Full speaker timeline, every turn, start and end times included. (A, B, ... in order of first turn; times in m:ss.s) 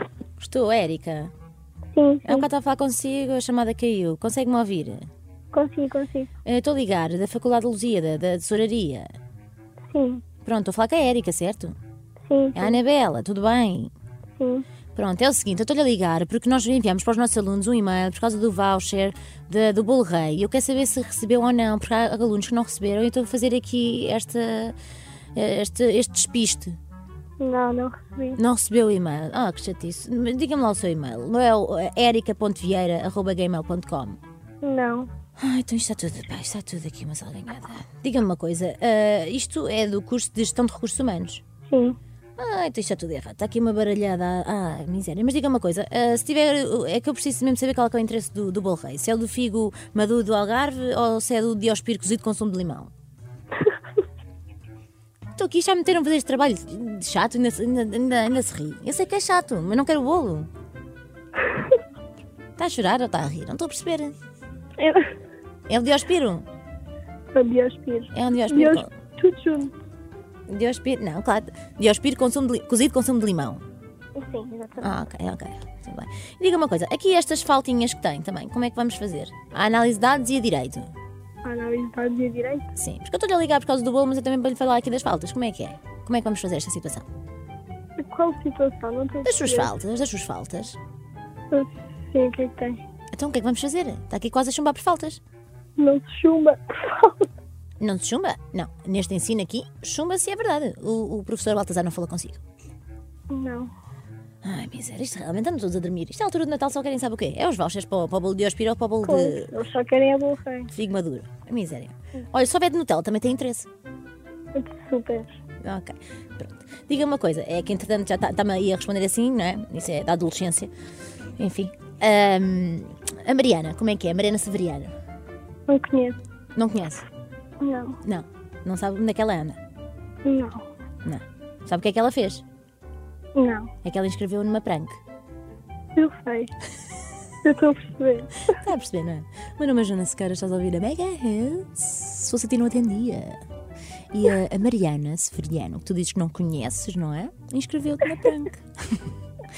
0:00.4-0:01.3 A
0:01.9-0:02.5 B
0:02.2-0:05.1 A
0:05.5-0:06.3 B
0:06.4-0:09.1 A
0:09.9-0:10.2 B
0:10.4-0:11.8 A
0:12.3-0:12.8 B
0:12.5-0:13.9 A
0:14.4-0:14.6 B
0:14.9-0:24.7 A
0:25.3-0:26.7 A
0:27.4-0:28.4 B
0:28.4-0:34.2 A
0:34.6-0:35.1 B
0:35.4-0:41.4 A
0:41.7-0:42.0 B
0:42.4-0:52.9 A
0:55.4-1:00.5 A
1:02.6-1:04.1 A
1:04.8-1:05.1 B
1:05.7-1:06.4 A
1:07.3-1:09.7 B
1:08.1-1:08.9 A
1:10.5-1:13.6 A
1:14.2-1:14.9 B
1:14.8-1:20.9 A
1:21.4-1:22.7 B
1:22.7-1:27.0 A
1:28.0-1:29.7 B
1:29.2-1:30.8 A
1:31.5-1:32.8 B
1:33.1-1:35.2 A
1:35.8-1:37.3 B
1:37.8-1:42.4 A
1:43.3-1:43.7 B
1:44.4-1:49.5 A
1:49.0-1:50.7 B
1:50.7-1:53.7 A
1:54.5-1:55.3 B
1:55.6-2:00.7 A
2:01.4-2:04.9 A
2:05.7-2:06.2 B
2:06.6-2:07.1 A
2:07.6-2:08.0 B
2:08.0-2:09.6 A
2:10.2-2:10.6 B
2:11.0-2:12.4 A
2:13.3-2:13.7 B
2:13.8-2:15.0 A
2:16.0-2:16.5 B
2:17.4-2:18.5 B
2:18.5-2:23.4 A
2:24.1-2:29.0 A